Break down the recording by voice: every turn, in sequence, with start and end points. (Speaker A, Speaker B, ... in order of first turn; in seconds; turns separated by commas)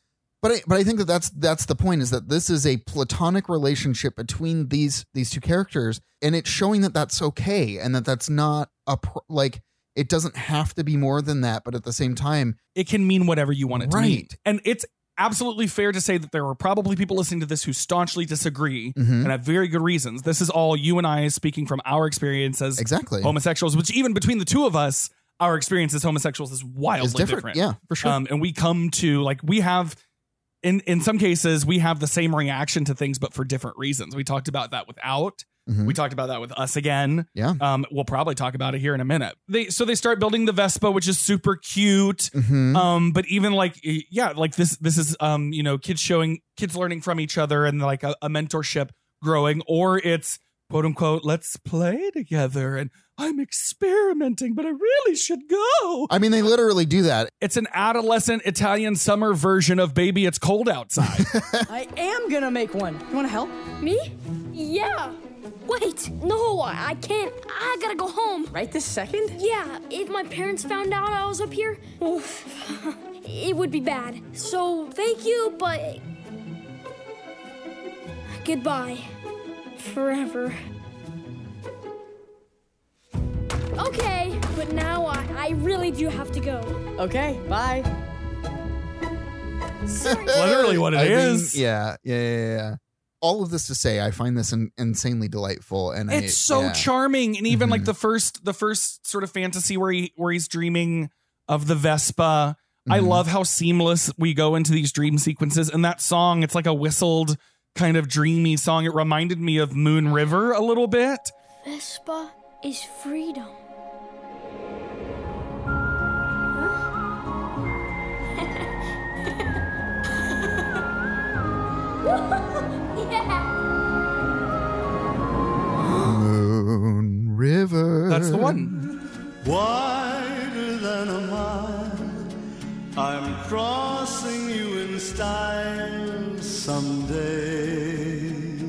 Speaker A: 0.4-12.6, Speaker B: 12.8-30.0, Speaker A: 13.7-14.3, Speaker A: 19.0-19.3, Speaker A: 22.8-23.4, Speaker A: 27.0-28.2, Speaker B: 30.6-56.1, Speaker A: 35.7-36.0, Speaker A: 42.3-42.9, Speaker A: 56.1-57.3, Speaker B: 57.4-61.3, Speaker A: 61.0-61.7, Speaker C: 61.7-63.5, Speaker D: 63.8-68.6, Speaker C: 68.5-69.4, Speaker D: 69.4-76.0, Speaker D: 78.3-79.1, Speaker D: 79.8-80.6, Speaker D: 83.8-86.8, Speaker C: 87.0-87.9, Speaker D: 89.9-90.5, Speaker A: 90.0-96.9, Speaker B: 90.3-91.6, Speaker B: 96.1-111.3, Speaker A: 97.5-97.9, Speaker A: 102.9-103.2, Speaker D: 111.6-113.6, Speaker D: 122.0-123.5, Speaker A: 126.0-128.8, Speaker B: 128.1-128.7, Speaker E: 129.4-132.2, Speaker E: 133.0-138.5